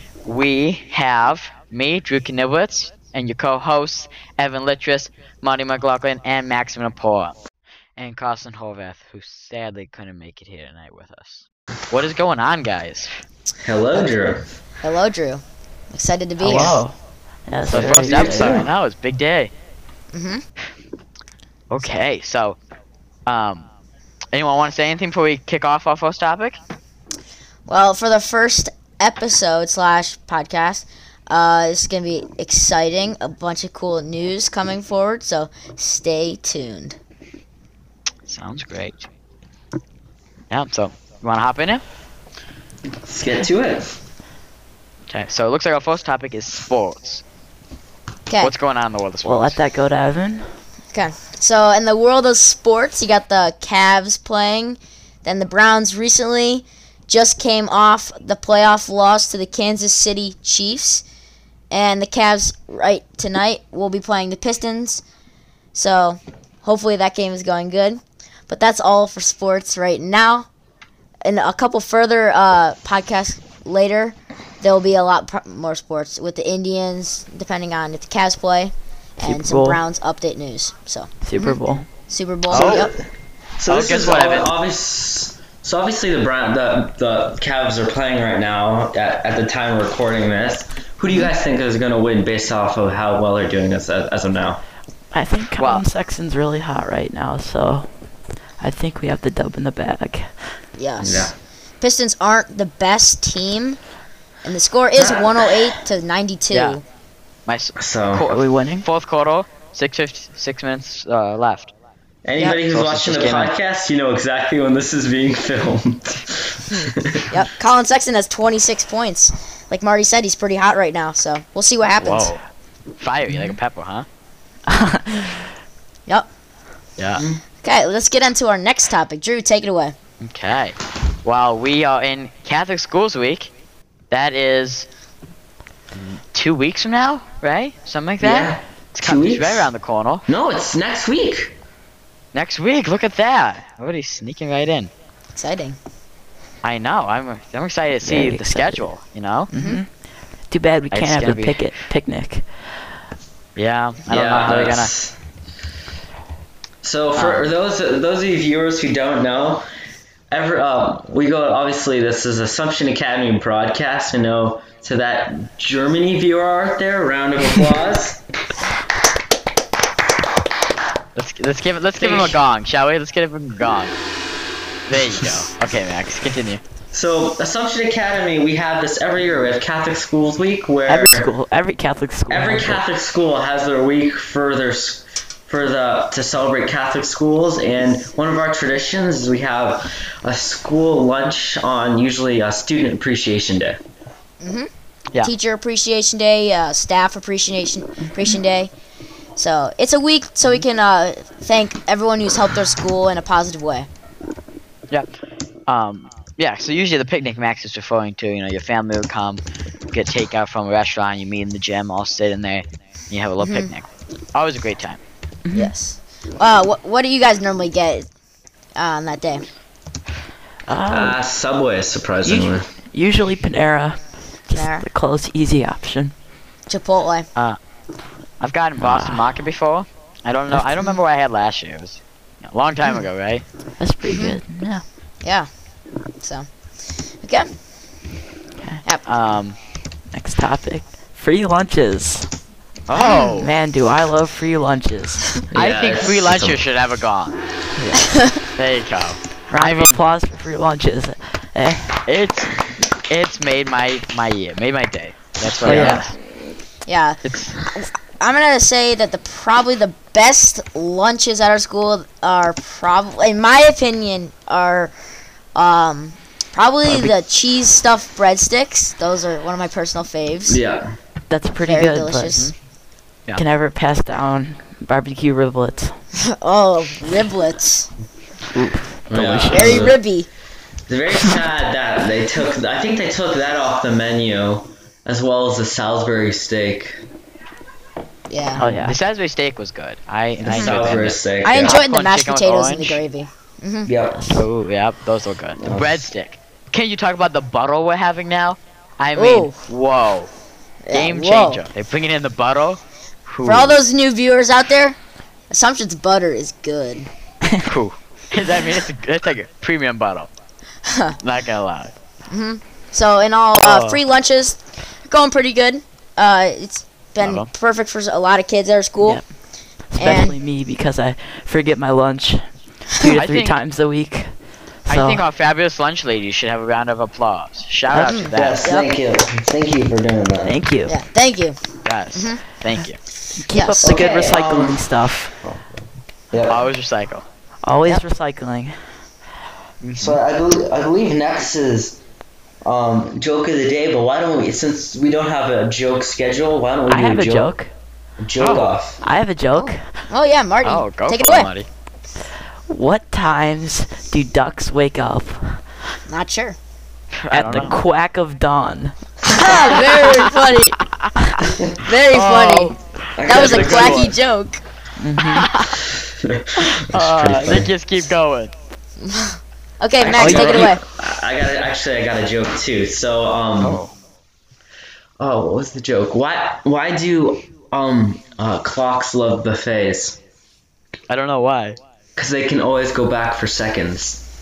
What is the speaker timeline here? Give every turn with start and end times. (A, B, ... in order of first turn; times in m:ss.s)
0:00.2-0:07.4 A
0:08.0-0:13.2 A
0:13.6-0:14.5 B
0:14.8-0:16.8 C
0:16.4-0:17.0 D
0:17.5-0:18.6 D
0:17.7-0:19.5 A
0:18.0-0:18.7 B
0:20.1-0:20.4 C
0:21.7-0:22.6 A
0:23.3-0:23.7 A
0:24.3-0:26.6 A
0:27.7-0:37.0 C
0:38.3-0:39.1 A
0:40.5-0:41.8 A
0:43.0-0:44.0 B
0:45.1-0:47.2 A
0:48.3-0:48.5 C
0:48.4-0:49.6 A
0:49.2-0:50.5 D
0:50.9-1:01.0 C
1:01.7-1:05.0 C
1:05.8-1:10.5 C
1:11.2-1:22.9 C
1:19.2-1:19.8 D
1:21.2-1:21.9 D
1:22.5-1:22.9 A
1:22.5-1:23.1 B
1:23.6-1:34.6 B
1:23.7-1:24.5 A
1:35.1-1:37.9 D
1:35.6-1:35.8 A
1:38.6-1:40.4 D
1:40.8-1:43.8 C
1:41.0-1:41.4 B
1:44.4-1:46.8 C
1:45.0-1:45.4 B
1:46.5-1:46.8 A
1:47.5-1:51.7 A
1:47.8-1:48.3 B
1:48.3-1:48.9 D
1:52.2-1:57.3 B
1:52.7-1:53.5 A
1:56.7-2:02.3 C
2:02.0-2:02.4 A
2:03.0-2:04.1 A
2:03.3-2:03.6 D
2:04.7-2:05.4 D
2:07.0-2:07.2 A
2:07.2-2:07.4 B
2:07.6-2:10.0 C
2:10.2-2:13.5 A
2:14.1-2:14.9 A
2:16.0-2:20.3 A
2:18.2-2:19.7 B
2:20.3-2:21.6 B
2:22.3-2:24.9 A
2:25.4-2:25.8 C
2:26.6-2:29.5 A
2:28.0-2:28.9 D
2:29.5-2:32.7 D
2:29.5-2:29.8 C
2:30.9-2:31.7 A
2:33.6-2:34.9 A
2:34.1-2:35.2 B
2:36.8-2:39.7 B
2:37.2-2:37.5 A
2:40.3-2:48.2 B
2:51.2-2:53.9 A
2:52.0-2:52.4 B
2:54.9-2:56.6 A
2:56.9-3:01.3 B
3:00.9-3:02.8 D
3:02.3-3:13.8 B
3:14.4-3:14.7 C
3:15.2-3:18.7 C
3:19.4-3:23.9 C
3:25.7-3:35.0 A
3:33.4-3:33.7 C
3:35.5-3:35.7 D
3:35.5-3:38.1 C
3:38.8-3:39.4 C
3:40.7-3:41.2 D
3:40.9-3:42.7 B
3:42.2-3:46.1 D
3:44.5-3:44.8 C
3:46.7-3:47.3 C
3:48.4-3:53.4 A
3:48.8-3:49.3 D
3:53.8-3:54.8 D
3:54.1-3:54.4 C
3:55.2-3:55.5 C
3:56.2-3:57.5 C
3:59.1-3:59.6 A
4:00.1-4:02.3 D
4:02.9-4:03.5 A
4:03.0-4:03.4 C
4:03.2-4:05.3 D
4:05.5-4:06.6 B
4:05.5-4:07.4 A
4:07.8-4:08.1 D
4:08.6-4:10.0 A
4:09.5-4:12.0 D
4:12.1-4:12.5 A
4:13.1-4:16.1 A
4:15.6-4:16.1 D
4:16.9-4:25.0 C
4:17.2-4:17.6 A
4:25.6-4:30.6 C
4:26.9-4:27.1 D
4:30.5-4:31.0 B
4:31.3-4:32.4 D
4:31.6-4:32.5 C
4:33.4-4:36.0 D
4:36.2-4:37.9 C
4:38.5-4:40.0 D
4:39.1-4:40.0 B
4:39.5-4:40.3 C
4:40.9-4:47.0 B
4:48.3-4:48.6 C
4:48.5-4:49.0 D
4:48.7-4:53.0 A
4:50.4-4:51.8 B
4:51.4-4:53.9 C
4:53.8-4:54.2 B
4:54.1-4:54.4 D
4:54.3-5:00.3 A
4:55.6-4:56.1 B
4:59.2-4:59.6 C
5:00.9-5:01.6 C
5:00.9-5:03.8 A
5:03.4-5:05.0 C
5:05.5-5:07.1 C
5:07.7-5:10.3 A
5:10.8-5:11.2 C
5:11.2-5:11.9 A
5:12.3-5:19.2 C
5:13.6-5:14.0 A
5:17.2-5:17.5 A
5:19.9-5:24.3 D
5:20.0-5:20.4 C
5:23.0-5:23.6 A
5:24.8-5:25.2 D
5:24.9-5:28.7 A
5:28.0-5:28.9 C
5:28.4-5:30.6 B
5:30.5-5:30.9 D
5:30.9-5:31.6 C
5:31.8-5:33.0 A
5:32.1-5:32.4 C
5:33.4-5:35.3 D
5:33.5-5:34.0 C
5:33.8-5:34.9 B
5:35.4-5:35.7 B
5:36.3-5:36.6 B
5:36.5-5:37.3 A
5:37.6-5:38.8 D
5:39.8-5:40.2 A
5:40.0-5:42.0 B
5:42.6-5:47.5 B
5:46.9-5:47.7 D
5:48.2-5:49.0 B
5:48.4-5:48.7 A
5:49.0-5:49.8 D
5:49.6-5:51.5 C
5:50.6-5:51.7 A
5:52.7-5:55.6 D
5:56.1-5:56.6 C
5:57.2-5:57.8 A
5:57.3-5:59.7 D
5:59.3-6:00.8 C
5:59.4-6:00.2 A
6:01.8-6:04.6 C
6:02.1-6:04.2 A
6:03.2-6:04.1 B
6:05.0-6:05.5 D
6:05.2-6:05.8 A
6:06.2-6:07.7 B
6:06.6-6:08.5 A
6:09.0-6:10.8 C
6:10.0-6:13.8 B
6:10.1-6:10.8 D
6:13.6-6:13.9 A
6:15.2-6:20.2 B
6:21.1-6:21.8 A
6:22.2-6:24.2 B